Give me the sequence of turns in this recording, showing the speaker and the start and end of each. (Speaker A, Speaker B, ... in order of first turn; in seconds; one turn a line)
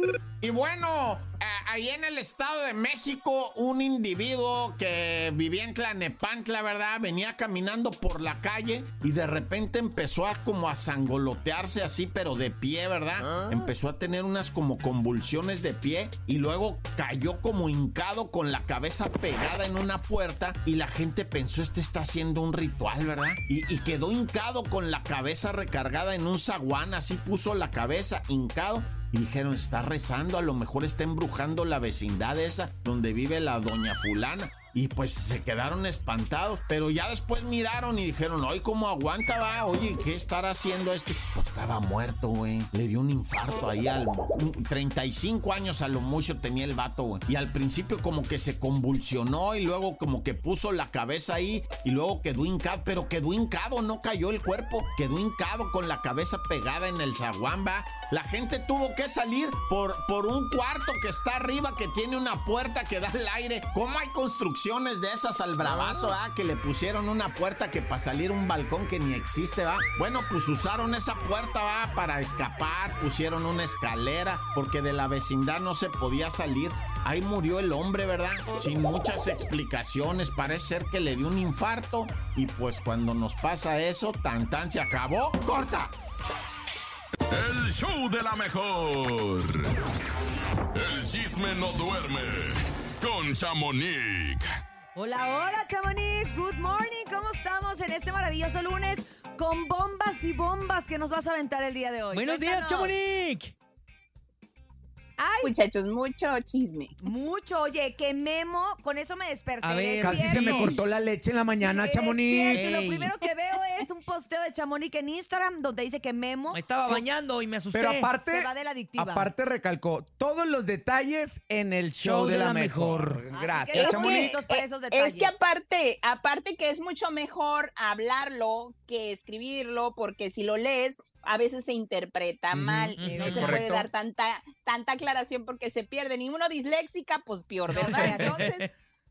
Speaker A: 0.4-85.9
Speaker B: 87.3-89.7
Speaker B: 90.7-94.5
Speaker C: 95.0-102.9
Speaker D: 102.1-103.5
Speaker C: 105.2-105.5
Speaker E: 105.4-106.9
Speaker C: 107.0-110.8
Speaker D: 109.6-110.8
Speaker F: 110.0-112.6
Speaker C: 111.7-116.6
Speaker D: 112.5-113.1
Speaker D: 116.5-118.1
Speaker F: 117.7-124.4
Speaker C: 118.2-119.3
Speaker D: 122.0-123.2
Speaker C: 123.3-125.3
Speaker E: 123.7-138.7
Speaker F: 132.5-133.9
Speaker D: 133.0-133.6
Speaker C: 133.1-133.6
Speaker C: 137.7-138.5
Speaker D: 137.8-138.7